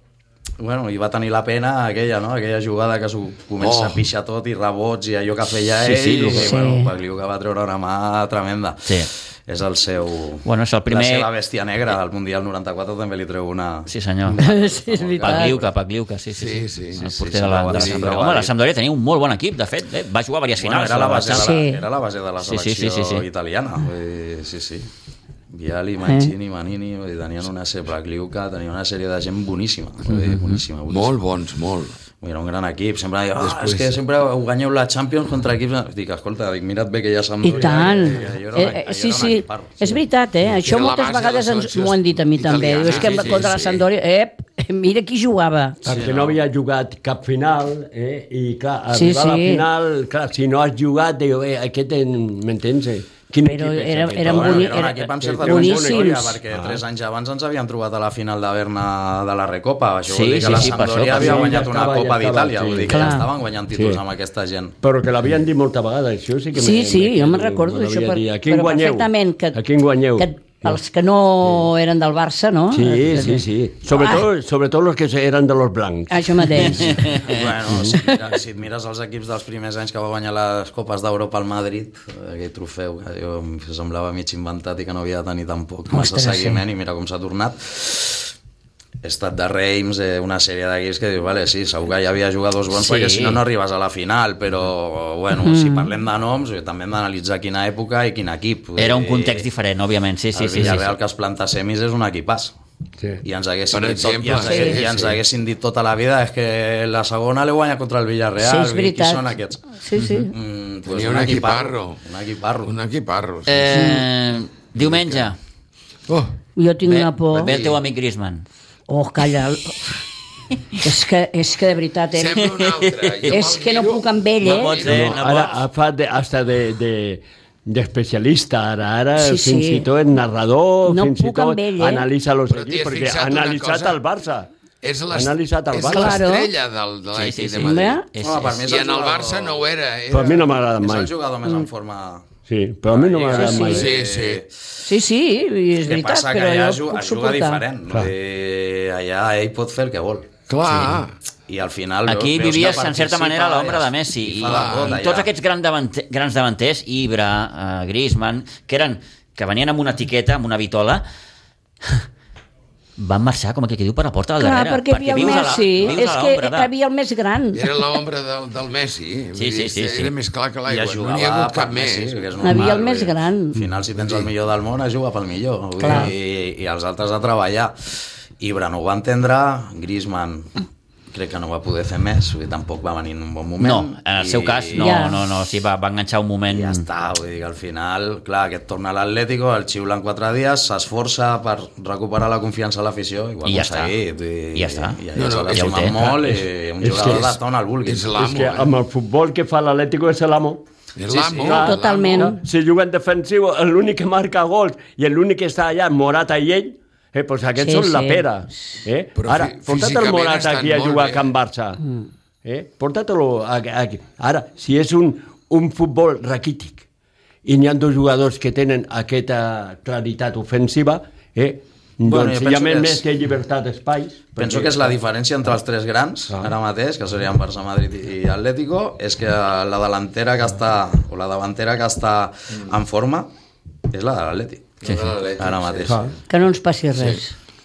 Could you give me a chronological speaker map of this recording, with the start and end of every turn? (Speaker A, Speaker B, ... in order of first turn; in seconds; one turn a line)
Speaker A: 0.6-15.7
Speaker B: 3.6-4.0
Speaker C: 5.8-6.5
Speaker D: 6.3-6.9
Speaker C: 10.4-11.3
Speaker C: 13.9-14.4
Speaker D: 14.4-15.6
Speaker C: 15.2-21.6
Speaker B: 16.3-17.1
Speaker A: 17.0-18.5
Speaker B: 17.7-18.1
Speaker A: 20.6-24.9
Speaker D: 21.3-21.8
Speaker C: 22.4-23.2
Speaker A: 25.5-31.2
Speaker D: 26.0-26.3
Speaker C: 30.1-30.6
Speaker B: 30.9-31.9
Speaker A: 32.2-40.0
Speaker B: 33.4-34.0
Speaker D: 37.4-45.8
Speaker B: 40.6-43.9
Speaker E: 45.8-56.8
Speaker B: 45.9-46.2
Speaker A: 45.9-46.1
Speaker D: 48.9-49.6
Speaker D: 53.4-56.2
Speaker A: 54.2-64.8
Speaker C: 60.1-61.5
Speaker E: 60.5-64.0
Speaker D: 62.9-63.3
Speaker E: 64.8-70.8
Speaker D: 66.5-69.6
Speaker D: 70.2-74.2
Speaker E: 71.4-71.7
Speaker E: 72.7-77.0
Speaker D: 76.1-77.2
Speaker C: 76.6-77.4
Speaker A: 77.0-88.3
Speaker E: 77.6-78.0
Speaker D: 85.9-86.6
Speaker A: 89.0-99.5
Speaker C: 92.7-93.4
Speaker D: 95.4-95.9
Speaker C: 98.8-101.0
Speaker A: 100.3-102.5
Speaker A: 103.2-109.8
Speaker B: 103.7-105.2
Speaker D: 104.4-104.8
Speaker D: 108.4-110.3
Speaker C: 110.0-110.2
Speaker A: 110.3-112.7
Speaker B: 110.9-112.0
Speaker B: 112.6-113.9
Speaker C: 113.5-115.4
Speaker D: 113.8-114.0
Speaker B: 114.8-115.2
Speaker B: 116.1-116.3
Speaker D: 116.5-117.6
Speaker C: 116.8-118.5
Speaker B: 117.5-117.8
Speaker D: 118.9-119.9
Speaker D: 120.7-122.5
Speaker B: 122.1-125.3
Speaker C: 122.5-123.4
Speaker D: 123.3-124.9
Speaker C: 124.4-125.6
Speaker E: 124.8-134.5
Speaker D: 129.2-129.9
Speaker D: 130.8-132.1
Speaker B: 132.5-134.0
Speaker B: 134.8-138.0
Speaker E: 135.1-136.2
Speaker D: 135.9-136.5
Speaker C: 137.1-138.7
Speaker D: 137.6-138.1
Speaker A: 138.2-139.6
Speaker B: 138.6-140.5
Speaker E: 140.1-141.1
Speaker A: 140.8-142.2
Speaker E: 142.4-143.9
Speaker A: 142.9-144.7
Speaker D: 143.3-143.9
Speaker B: 143.3-144.4
Speaker D: 144.8-147.6
Speaker A: 145.8-150.3
Speaker B: 150.5-151.1
Speaker A: 151.5-155.3
Speaker C: 152.1-161.0
Speaker B: 154.4-154.9
Speaker C: 163.0-166.7
Speaker D: 164.4-167.9
Speaker B: 167.5-172.3
Speaker C: 169.3-170.1
Speaker A: 170.7-180.5
Speaker D: 172.4-173.6
Speaker B: 174.0-174.3
Speaker D: 175.8-176.1
Speaker A: 181.1-185.1
Speaker C: 183.6-186.8
Speaker D: 184.8-185.2
Speaker A: 186.5-198.3
Speaker C: 193.4-193.9
Speaker C: 194.5-196.3
Speaker B: 195.1-195.8
Speaker E: 196.1-197.4
Speaker B: 197.8-198.7
Speaker E: 198.1-200.6
Speaker B: 200.9-202.3
Speaker A: 201.1-201.5
Speaker E: 201.3-211.8
Speaker D: 201.5-202.4
Speaker D: 207.6-208.3
Speaker B: 209.2-211.3
Speaker E: 212.4-216.8
Speaker E: 217.4-225.0
Speaker A: 222.0-223.0
Speaker A: 224.4-233.3
Speaker A: 233.9-236.1
Speaker B: 234.8-236.1
Speaker E: 235.8-236.1
Speaker D: 236.3-237.3